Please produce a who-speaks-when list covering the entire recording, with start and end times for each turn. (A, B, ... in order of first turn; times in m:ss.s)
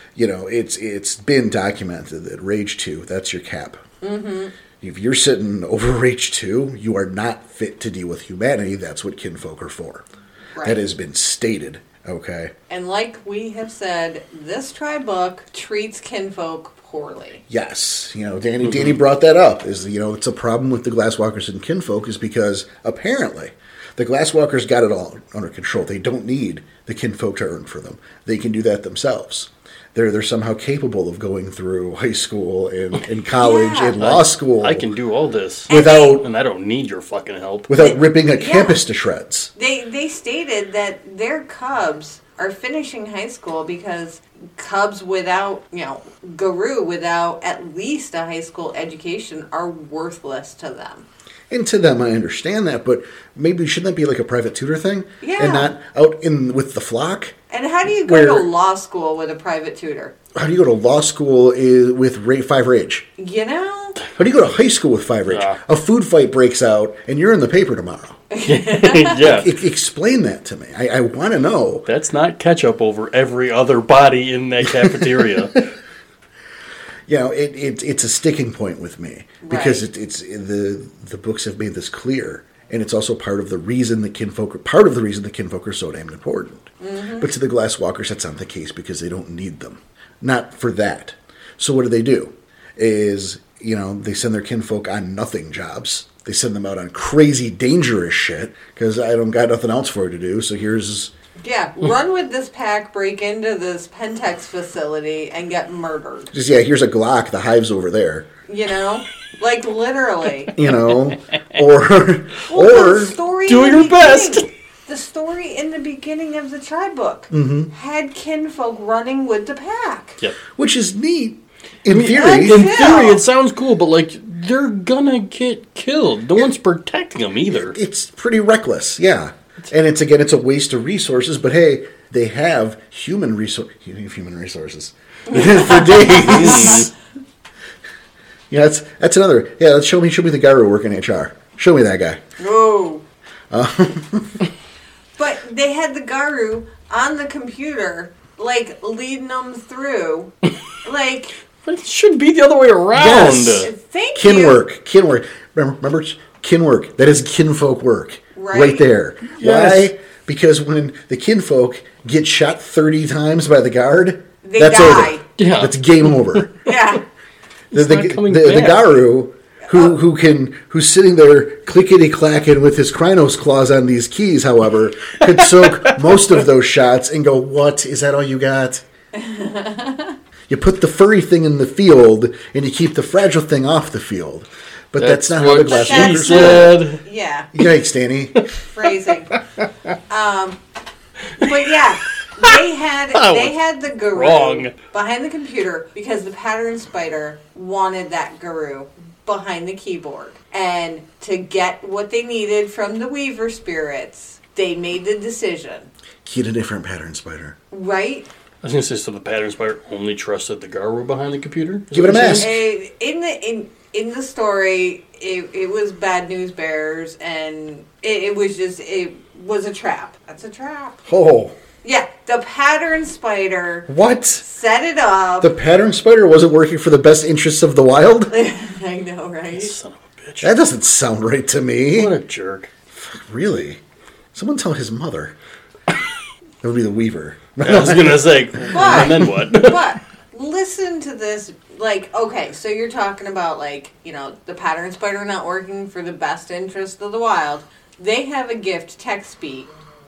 0:00.2-0:03.8 A
0:04.0-0:04.5 B
0:04.8-0:10.0 A
0:10.6-0:10.8 B
0:10.6-0:12.5 A
0:12.7-0:17.4 B
0:17.5-0:34.9 A
0:18.6-0:19.0 C
0:33.4-0:34.0 B
0:34.0-0:37.8 C
0:35.7-0:36.2 B
0:35.7-0:36.3 A
0:37.7-0:39.5 A
0:37.8-0:38.8 B
0:39.6-0:51.1 B
0:51.5-0:57.4 A
0:55.2-0:55.7 B
0:57.5-1:00.1 B
0:58.0-0:58.5 A
1:00.3-1:03.1 A
1:03.2-1:04.0 B
1:04.2-1:08.2 A
1:05.3-1:05.6 C
1:08.3-1:09.2 B
1:08.4-1:09.6 C
1:09.2-1:11.9 A
1:11.9-1:15.6 C
1:14.7-1:15.6 A
1:17.1-1:41.1 A
1:19.4-1:19.8 B
1:26.8-1:27.3 B
1:41.4-1:46.3 B
1:46.3-1:48.3 A
1:48.5-1:50.6 B
1:50.5-1:53.2 A
1:52.5-2:00.2 B
1:53.5-1:54.5 C
1:57.3-1:57.7 A
2:00.5-2:03.0 A
2:01.9-2:07.8 C
2:02.1-2:03.2 B
2:07.5-2:16.9 A
2:15.3-2:16.9 B
2:16.1-2:16.9 C
2:18.5-2:22.2 A
2:22.4-2:23.0 B
2:23.5-2:24.4 A
2:25.2-2:30.3 B
2:30.8-2:31.3 B
2:31.6-2:33.7 C
2:32.9-2:46.5 A
2:33.6-2:34.6 B
2:38.4-2:38.9 B
2:39.4-2:39.9 C
2:44.4-2:45.2 B
2:45.4-2:46.7 C
2:46.6-2:47.0 B
2:47.7-2:48.9 C
2:47.7-2:58.8 A
2:49.7-2:50.0 B
2:55.3-2:56.2 C
2:59.1-3:00.2 B
3:00.5-3:06.8 A
3:05.0-3:07.0 C
3:05.7-3:07.5 B
3:07.5-3:08.4 A
3:08.6-3:09.4 B
3:10.1-3:10.6 B
3:11.4-3:25.9 B
3:13.1-3:13.5 C
3:14.1-3:14.7 C
3:26.2-3:27.6 A
3:27.7-3:28.3 B
3:28.6-3:32.6 C
3:31.9-3:32.6 A
3:32.4-3:41.0 B
3:41.1-3:41.6 A
3:41.8-3:43.9 B
3:43.9-3:44.4 A
3:44.4-3:45.5 B
3:45.4-3:48.3 A
3:48.3-3:49.7 B
3:49.6-3:50.5 C
3:50.4-3:52.1 A
3:51.9-3:52.7 C
3:53.0-3:53.8 A
3:54.3-3:55.3 A
3:56.6-3:59.3 A
3:57.6-4:00.0 C
3:58.7-4:09.7 B